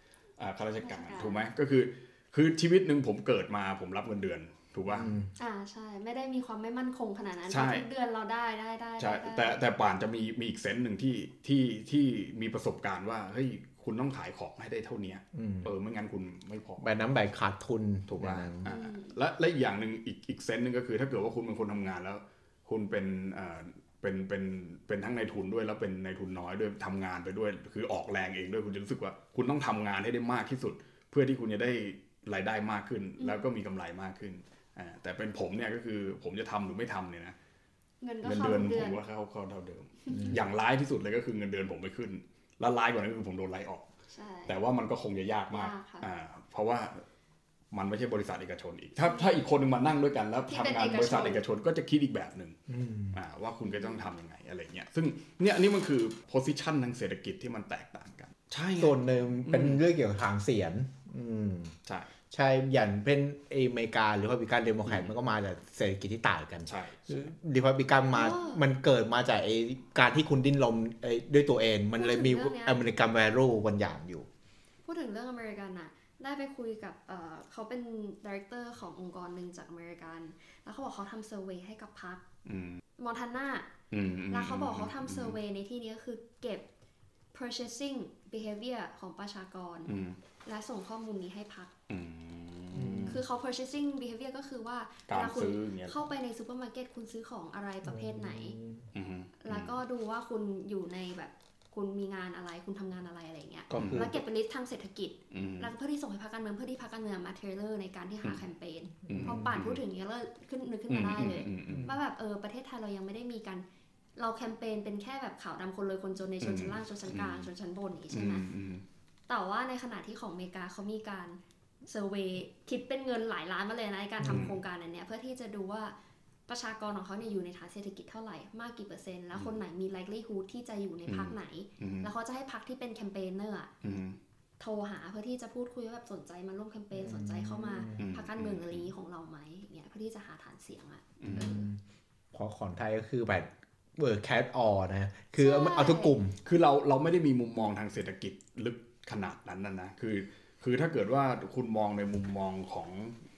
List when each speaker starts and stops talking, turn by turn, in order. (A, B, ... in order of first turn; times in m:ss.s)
0:00.4-0:05.2 A
0:00.8-0:01.4 B
0:04.9-0:05.3 C
0:05.4-0:09.6 B
0:07.5-0:07.8 A
0:09.0-0:16.9 A
0:15.3-0:15.7 C
0:16.8-0:18.7 C
0:18.1-0:37.4 A
0:18.6-0:19.2 B
0:33.2-0:33.5 B
0:38.0-0:39.0 B
0:38.2-0:43.9 A
0:40.1-0:40.4 C
0:44.1-0:44.6 B
0:44.5-0:47.0 A
0:45.5-0:46.1 B
0:47.7-0:52.6 A
0:50.5-0:51.4 B
0:52.7-0:53.2 C
0:53.1-0:59.8 A
0:58.8-1:01.7 C
1:02.3-1:14.3 C
1:04.8-1:05.1 A
1:06.6-1:07.1 A
1:08.1-1:08.6 B
1:12.0-1:12.8 B
1:14.8-1:22.2 B
1:22.4-1:22.8 A
1:23.0-1:23.7 B
1:23.9-1:25.4 A
1:24.3-1:26.6 B
1:27.3-1:31.7 B
1:29.8-1:30.2 A
1:31.9-1:33.2 A
1:32.7-1:33.2 C
1:33.1-1:38.6 B
1:35.1-1:36.0 A
1:37.8-1:38.8 C
1:38.9-1:39.8 A
1:39.4-1:53.6 B
1:43.7-1:44.2 C
1:43.8-1:44.2 A
1:45.3-1:45.7 A
1:49.1-1:49.5 C
1:49.1-1:49.8 A
1:50.9-1:51.9 A
1:51.7-1:51.9 C
1:54.2-1:58.4 B
1:56.4-1:57.5 A
1:58.1-1:58.8 A
1:59.3-2:05.9 B
2:04.2-2:04.5 C
2:04.2-2:04.6 A
2:06.5-2:13.7 B
2:09.3-2:09.6 A
2:11.1-2:12.1 A
2:13.8-2:14.2 A
2:14.6-2:21.7 B
2:16.9-2:18.0 C
2:18.0-2:18.9 A
2:21.2-2:21.6 A
2:21.3-2:21.8 C
2:22.3-2:26.4 C
2:25.4-2:26.1 B
2:26.4-2:33.2 A